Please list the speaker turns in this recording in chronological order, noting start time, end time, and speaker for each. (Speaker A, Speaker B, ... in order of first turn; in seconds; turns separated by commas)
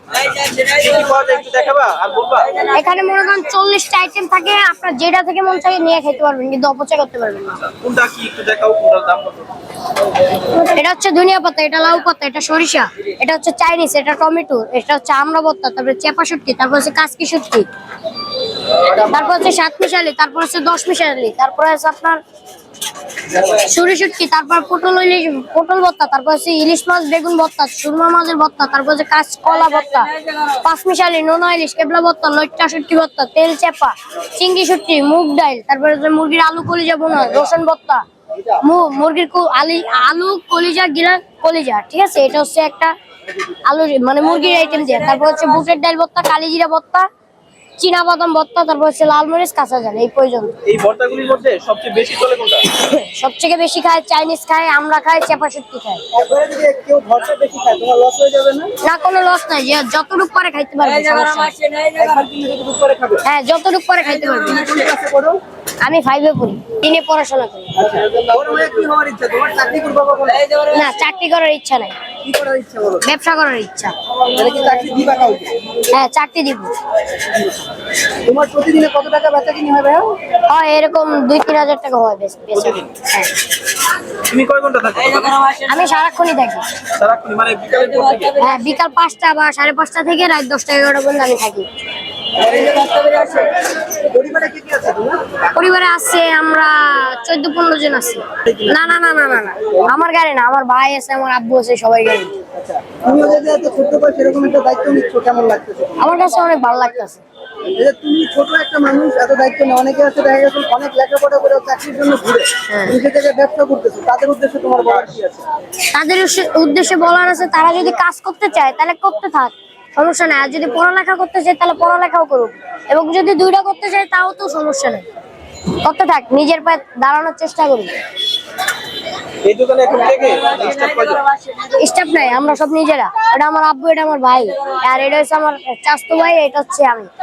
Speaker A: 0.2-2.7, Speaker B: 2.7-7.7, Speaker A: 7.7-9.5, Speaker B: 10.5-17.7, Speaker B: 18.9-22.2, Speaker B: 23.3-42.9, Speaker B: 43.6-47.1, Speaker B: 47.8-50.5, Speaker A: 50.6-52.7, Speaker B: 52.8-56.0, Speaker C: 56.1-58.7, Speaker B: 58.8-61.6, Speaker C: 61.9-63.2, Speaker B: 63.2-64.7, Speaker C: 64.4-65.4, Speaker B: 65.8-67.7, Speaker C: 67.8-70.5, Speaker B: 70.6-72.0, Speaker C: 72.2-73.0, Speaker B: 73.0-73.9, Speaker C: 74.1-75.6, Speaker B: 75.9-76.7, Speaker C: 78.2-80.1, Speaker B: 80.5-83.3, Speaker A: 82.5-82.9, Speaker A: 84.2-85.5, Speaker B: 85.6-86.6, Speaker A: 86.9-88.4, Speaker B: 88.4-91.7, Speaker C: 92.4-95.2, Speaker B: 95.5-102.3, Speaker C: 98.5-98.7, Speaker C: 102.5-106.1, Speaker B: 106.0-107.2, Speaker C: 107.7-115.5, Speaker B: 115.9-125.0, Speaker B: 125.8-128.0, Speaker A: 129.4-131.3, Speaker B: 131.7-137.1